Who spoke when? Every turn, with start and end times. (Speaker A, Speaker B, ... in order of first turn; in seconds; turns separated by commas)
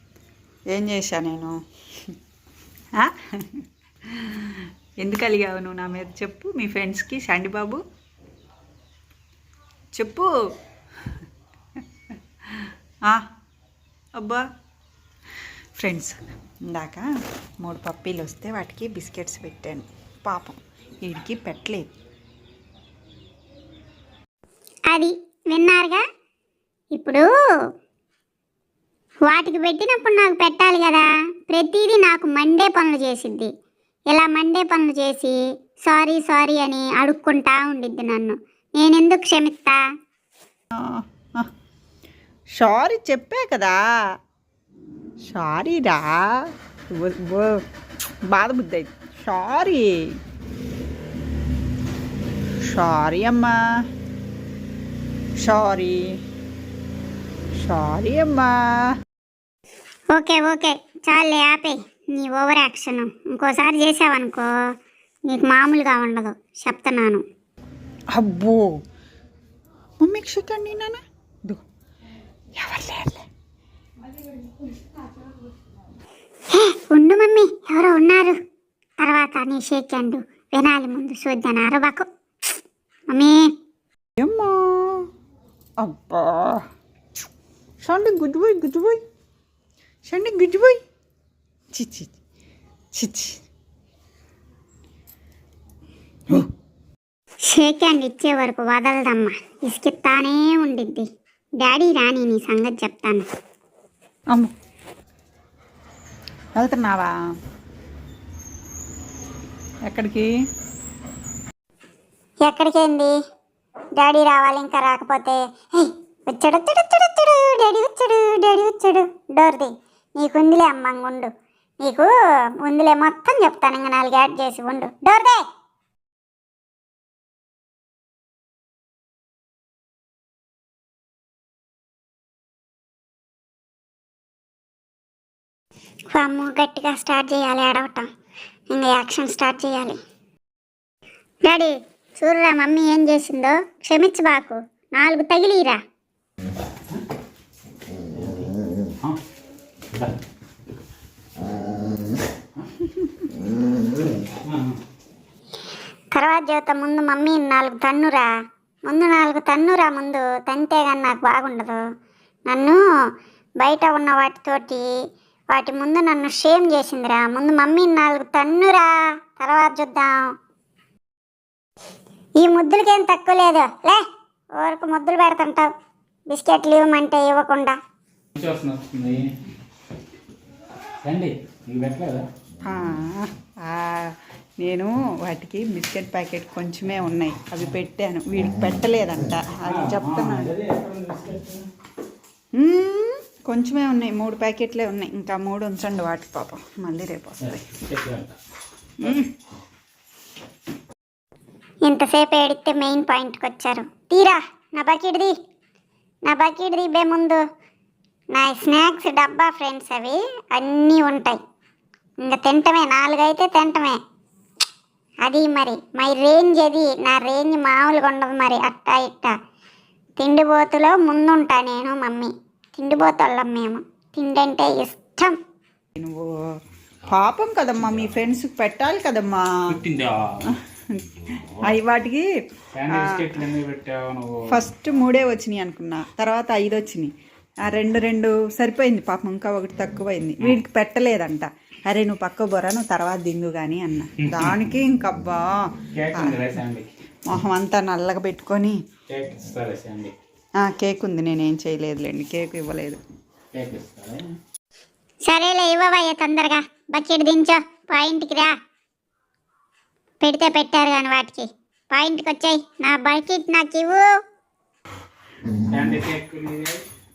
Speaker A: 0.7-1.5, Speaker A: 3.0-3.5, Speaker A: 5.0-7.8, Speaker A: 9.9-10.3, Speaker A: 12.6-13.2, Speaker A: 14.2-14.4, Speaker A: 15.8-16.1, Speaker A: 16.7-17.1, Speaker A: 17.6-21.9, Speaker B: 24.9-26.0, Speaker B: 26.9-27.2, Speaker B: 29.3-33.5, Speaker B: 34.1-39.8, Speaker A: 40.8-41.5, Speaker A: 42.5-43.8, Speaker A: 45.2-46.3, Speaker A: 46.9-47.6, Speaker A: 48.3-49.9, Speaker A: 52.6-53.6, Speaker A: 55.4-56.1, Speaker A: 57.6-58.5, Speaker B: 60.1-64.5, Speaker B: 65.3-67.2, Speaker A: 68.1-68.7, Speaker A: 70.0-71.6, Speaker A: 72.6-73.2, Speaker B: 76.5-78.4, Speaker B: 79.0-82.0, Speaker B: 83.1-83.4, Speaker A: 84.2-85.0, Speaker A: 85.8-86.6, Speaker A: 87.8-89.0, Speaker A: 90.1-90.8, Speaker A: 91.7-92.1, Speaker A: 92.9-93.4, Speaker B: 97.5-101.0, Speaker B: 101.6-103.2, Speaker A: 106.5-107.1, Speaker A: 109.8-110.3, Speaker B: 112.4-113.1, Speaker B: 114.0-121.3, Speaker B: 121.8-125.4, Speaker B: 136.1-138.1, Speaker B: 138.7-140.0, Speaker B: 141.4-145.8, Speaker C: 148.1-149.2, Speaker C: 154.3-154.8, Speaker B: 156.1-158.3, Speaker B: 158.9-161.8, Speaker B: 162.5-162.8, Speaker B: 163.6-164.8, Speaker B: 165.5-170.3, Speaker B: 172.4-174.0, Speaker B: 174.6-175.7, Speaker B: 176.3-177.8, Speaker C: 178.3-179.3, Speaker C: 181.0-182.2, Speaker A: 182.6-184.0, Speaker A: 184.6-190.5, Speaker C: 189.7-191.7, Speaker A: 192.6-197.6, Speaker C: 197.4-198.4, Speaker A: 199.0-199.3, Speaker B: 201.8-205.3, Speaker B: 206.2-207.4, Speaker B: 208.3-211.4, Speaker B: 212.2-214.0, Speaker B: 215.2-219.3, Speaker B: 220.2-225.4, Speaker A: 225.9-226.3, Speaker A: 227.1-229.5, Speaker C: 229.7-230.5, Speaker A: 230.4-232.2, Speaker C: 232.7-234.6, Speaker A: 232.9-233.4, Speaker A: 234.5-237.1, Speaker A: 237.6-245.6, Speaker C: 244.2-244.6, Speaker C: 245.9-246.9, Speaker A: 246.1-246.5, Speaker A: 247.3-248.8, Speaker C: 249.1-250.1, Speaker A: 250.6-253.0, Speaker C: 253.5-254.3, Speaker B: 255.2-258.5, Speaker B: 260.2-264.1, Speaker C: 265.6-266.8